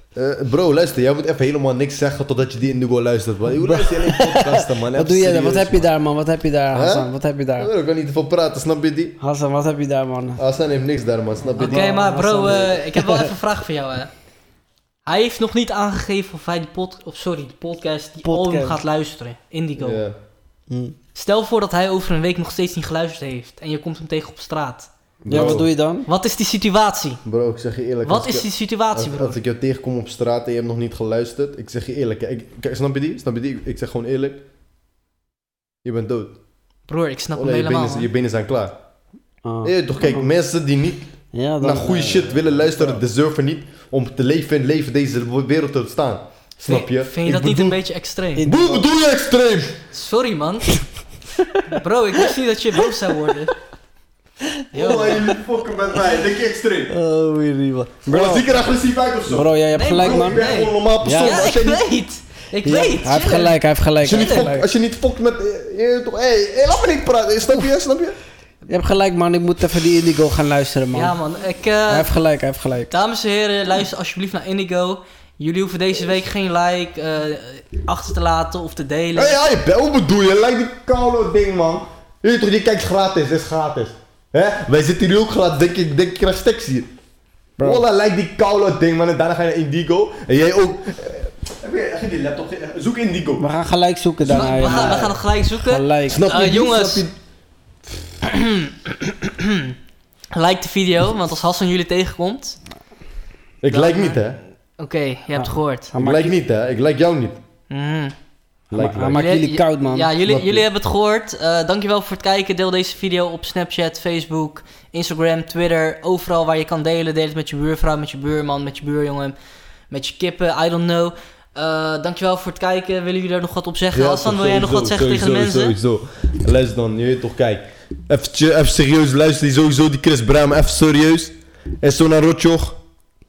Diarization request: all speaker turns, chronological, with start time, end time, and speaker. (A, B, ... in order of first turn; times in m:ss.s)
0:00.2-0:05.9 A
0:03.6-0:07.7 B
0:06.7-0:09.2 A
0:09.2-0:10.4 B
0:10.4-0:11.9 A
0:11.5-0:13.3 B
0:11.6-0:14.1 C
0:12.4-0:12.7 A
0:15.1-0:20.0 C
0:18.2-0:18.8 B
0:19.8-0:20.2 A
0:20.7-0:21.0 B
0:21.2-0:27.2 C
0:25.2-0:25.7 A
0:25.3-0:26.1 B
0:27.2-0:34.4 A
0:28.0-0:29.4 C
0:35.8-0:36.3 A
0:36.9-0:38.1 C
0:37.4-0:38.8 A
0:39.4-0:40.3 B
0:39.6-0:41.1 A
0:41.3-0:43.0 B
0:41.6-0:47.8 A
0:46.6-0:48.4 C
0:48.4-0:48.9 B
0:48.4-0:49.8 A
0:49.9-0:50.8 C
0:51.7-0:53.5 C
0:54.7-0:55.2 C
0:54.7-0:56.9 A
0:54.8-0:55.3 B
0:56.9-0:58.5 B
0:58.1-1:02.0 A
0:59.3-1:01.4 B
0:59.7-1:04.5 C
1:02.6-1:04.7 B
1:04.0-1:08.2 A
1:08.7-1:11.2 B
1:10.9-1:12.1 C
1:11.9-1:12.9 B
1:12.9-1:19.4 C
1:19.2-1:26.9 A
1:27.6-1:27.8 B
1:27.6-1:33.4 A
1:33.4-1:36.3 B
1:34.2-1:37.1 C
1:34.6-1:35.1 A
1:36.1-1:37.1 A
1:38.2-1:39.8 C
1:40.3-1:42.6 C
1:43.6-1:44.4 A
1:43.7-1:44.3 C
1:44.8-1:45.9 C
1:45.4-1:46.4 B
1:46.0-1:47.4 A
1:47.7-1:48.2 C
1:48.7-1:49.3 A
1:48.7-1:50.3 B
1:49.2-1:59.4 C
1:50.3-1:50.6 A
1:59.9-2:05.8 C
2:03.9-2:12.8 A